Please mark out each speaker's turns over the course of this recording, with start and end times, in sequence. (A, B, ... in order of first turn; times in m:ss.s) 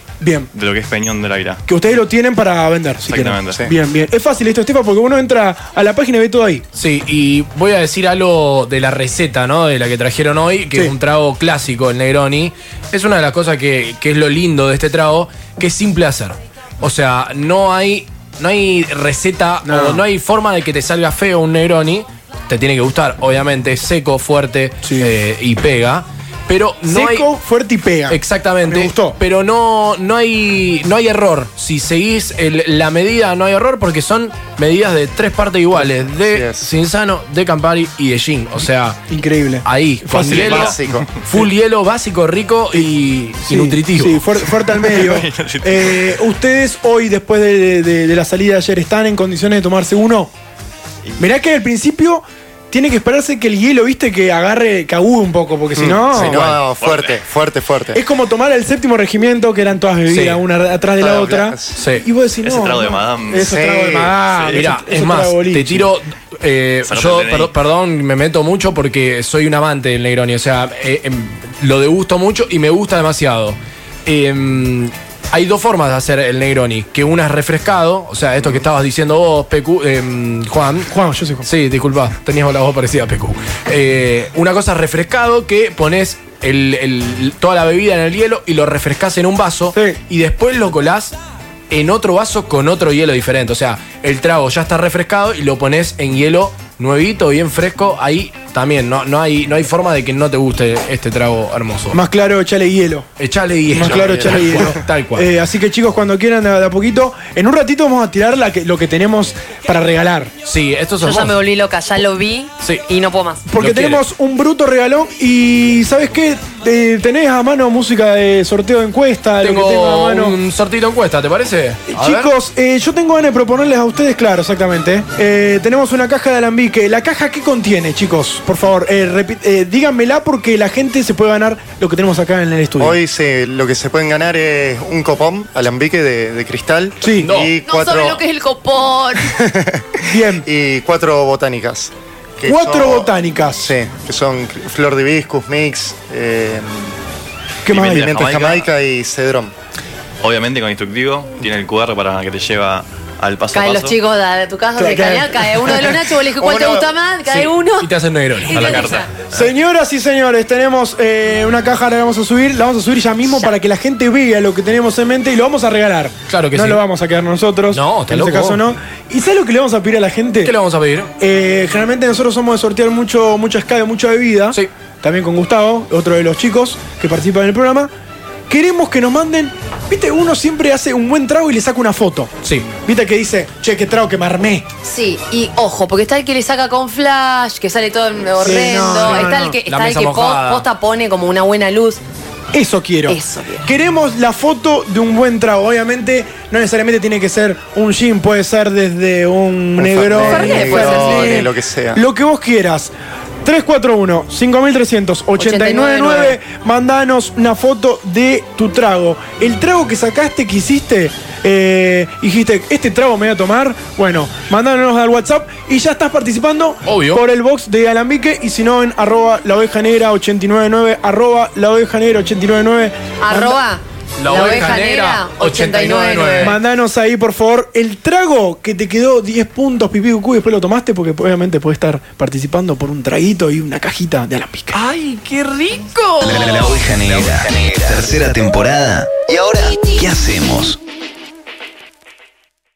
0:00.2-0:00.5 A
0:00.5-0:01.6 B
0:01.7-0:06.6 A
0:03.0-0:03.7 B
0:06.8-0:27.3 C
0:19.6-0:20.0 A
0:24.8-0:25.1 A
0:26.8-0:29.2 A
0:28.1-0:39.0 C
0:35.8-0:36.7 D
0:39.1-0:40.7 A
0:39.6-0:44.3 C
0:40.3-0:41.1 D
0:40.3-0:40.8 B
0:43.4-0:50.3 A
0:44.7-0:46.1 B
0:51.2-0:56.5 A
0:55.7-0:58.0 D
0:56.2-0:57.2 B
0:57.9-1:05.9 A
1:00.1-1:00.4 C
1:01.0-1:01.8 D
1:01.7-1:02.0 C
1:02.4-1:03.6 B
1:03.3-1:04.2 D
1:04.4-1:20.9 C
1:06.8-1:07.6 B
1:20.9-1:21.5 A
1:21.4-1:31.2 C
1:29.7-1:30.0 A
1:31.7-1:42.0 C
1:41.9-1:43.1 A
1:43.2-1:45.3 C
1:43.7-1:50.3 A
1:43.7-1:44.8 D
1:50.4-1:51.4 C
1:51.0-1:53.4 E
1:53.5-2:00.4 A
1:53.6-1:54.0 C
1:59.4-2:02.3 C
2:01.9-2:13.0 A
2:12.8-2:18.2 D
2:17.0-2:17.3 A
2:17.2-2:17.5 C
2:17.6-2:19.4 E
2:19.3-2:26.9 D
2:20.0-2:20.4 A
2:22.4-2:23.7 A
2:27.6-2:28.2 A
2:27.7-2:28.7 B
2:27.7-2:29.5 D
2:30.2-2:34.0 B
2:33.5-2:37.9 E
2:34.8-2:36.0 A
2:36.4-2:37.0 D
2:37.3-2:39.0 C
2:38.5-2:39.1 E
2:38.5-2:39.1 B
2:39.3-2:50.5 A
2:46.3-2:46.8 C
2:47.7-2:48.6 C
2:50.4-2:51.1 C
2:51.2-2:57.9 A
2:58.5-3:04.6 A
3:04.8-3:12.0 E
3:08.4-3:09.6 A
3:09.0-3:10.6 C
3:12.5-3:22.9 A
3:13.1-3:13.7 E
3:19.8-3:22.0 D
3:20.1-3:21.5 E
3:23.4-3:43.6 A
3:25.4-3:26.4 E
3:36.8-3:37.2 C
3:43.2-3:46.6 E
3:44.2-3:46.6 C
3:46.4-3:54.8 A
3:54.7-3:56.8 C
3:56.2-4:00.8 F